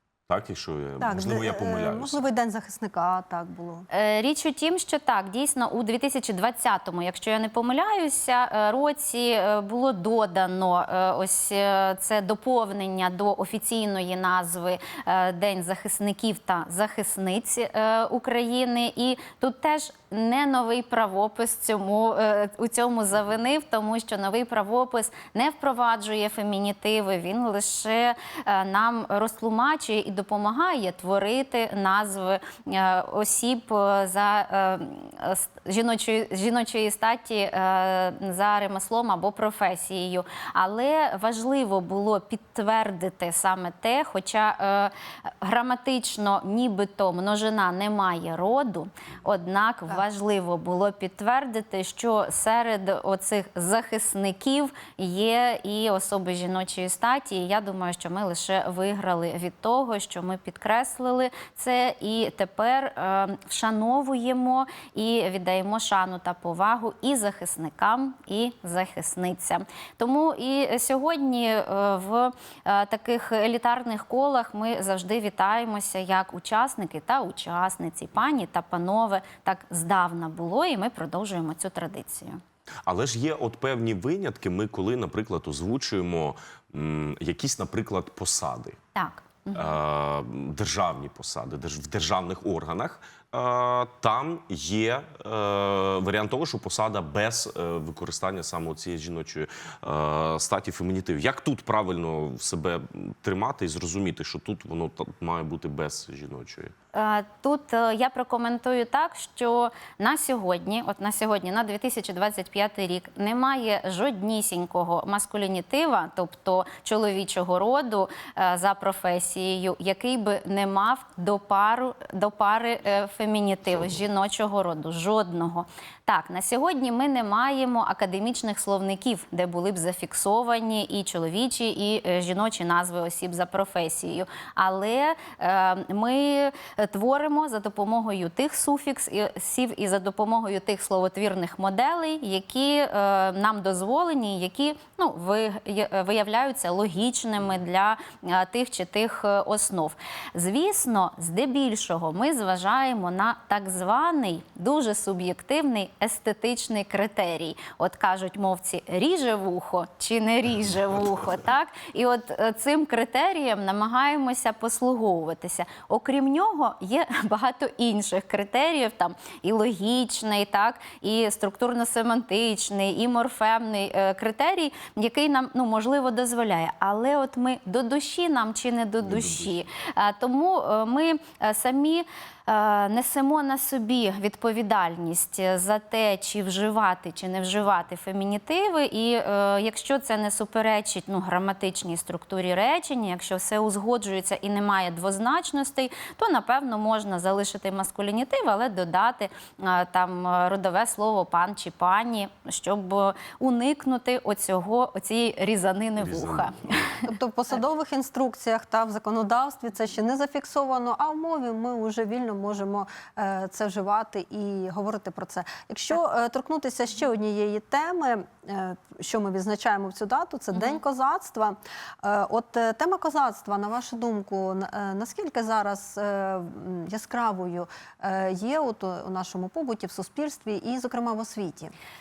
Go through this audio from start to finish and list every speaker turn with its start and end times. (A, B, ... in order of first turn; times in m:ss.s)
0:00.3-0:02.2 A
0:01.0-0:03.9 B
0:03.9-1:22.4 C
1:22.8-1:28.8 A
1:29.0-1:29.8 C
1:29.5-1:46.7 A
1:46.9-3:27.1 C
2:59.0-2:59.6 A
3:26.0-3:26.8 A
3:27.0-3:51.8 B